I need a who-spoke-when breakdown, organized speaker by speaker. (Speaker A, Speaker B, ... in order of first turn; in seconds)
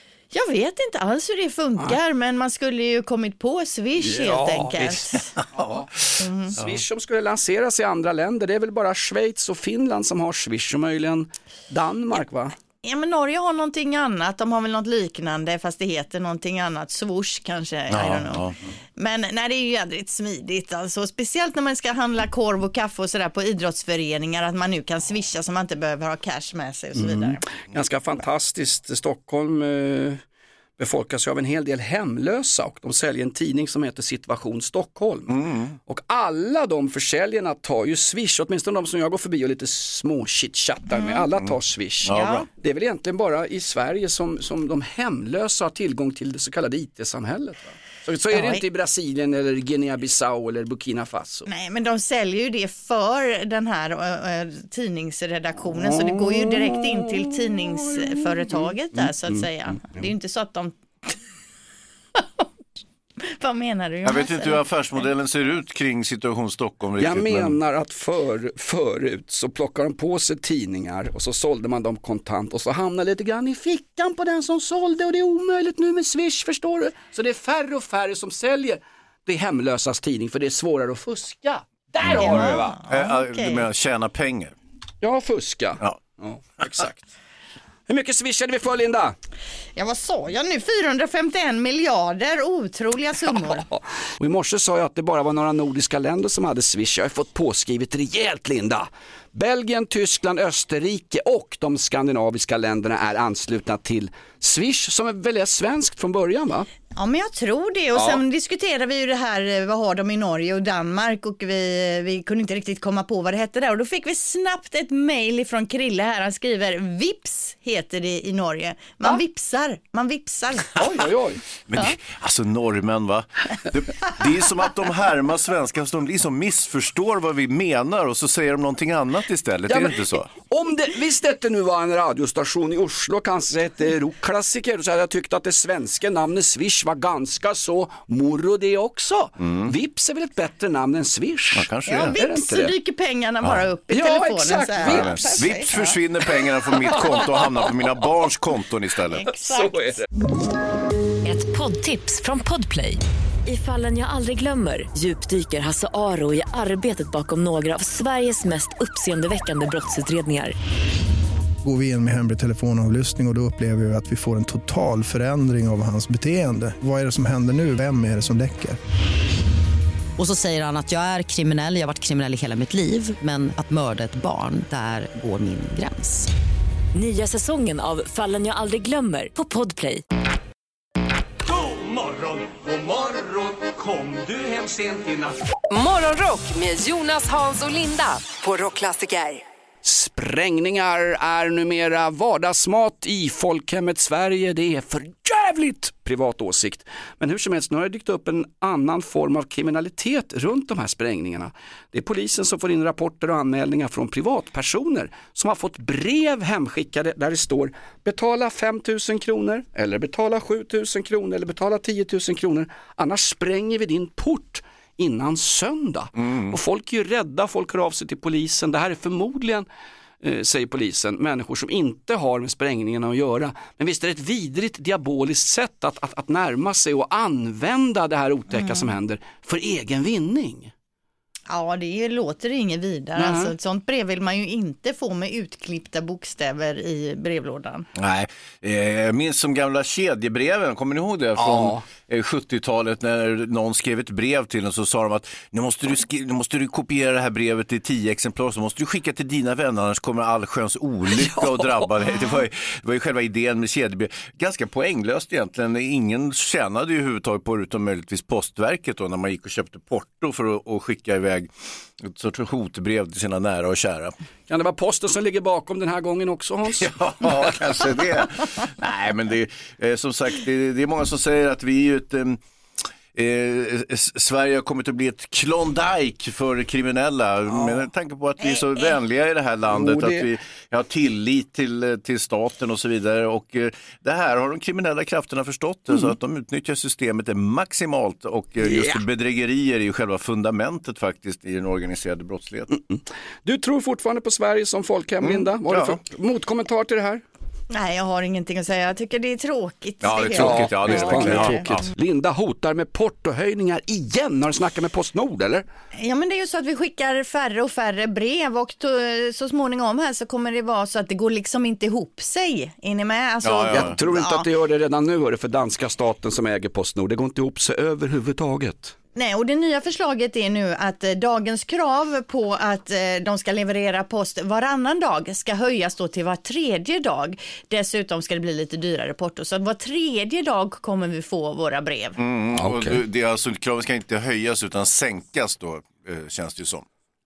Speaker A: 0.3-5.3, 6.2-6.5, 12.8-18.4, 19.0-27.4, 40.9-41.2, 42.1-42.5, 48.3-48.6, 51.5-61.2, 62.2-62.5, 63.2-64.6, 82.1-83.7, 89.8-93.6, 107.0-120.8, 141.9-146.0, 149.2-149.8, 231.5-237.9, 278.4-279.0, 297.7-301.6, 306.0-314.5, 319.1-332.2
Speaker B: 4.0-5.9, 6.5-12.5, 26.9-30.2, 30.8-51.5, 55.8-60.0, 67.0-82.8, 85.0-87.0, 87.9-89.2, 93.6-106.7, 108.0-108.2, 120.8-121.4, 129.7-142.7, 143.9-145.4, 146.9-147.5, 149.2-150.1, 189.8-219.7, 220.2-230.7, 233.2-233.5, 241.4-241.8, 251.1-251.9, 264.5-267.5, 279.7-280.3, 288.6-289.0, 292.7-297.2, 300.4-305.6, 313.7-318.9, 332.6-333.0
Speaker C: 5.6-5.8, 17.9-18.6, 35.3-35.8, 42.0-42.5, 64.0-67.6, 82.0-84.5, 121.7-130.3, 139.5-139.7, 141.6-142.1, 144.8-149.3, 216.2-216.5, 238.0-261.5, 262.0-264.1, 266.8-272.4, 273.1-292.7, 295.2-296.0, 300.0-301.9, 313.4-314.0, 332.2-336.9
Speaker D: 151.2-160.5, 176.9-180.0
Speaker E: 161.6-168.8
Speaker F: 170.2-176.3
Speaker G: 181.5-185.4
Speaker H: 185.7-189.4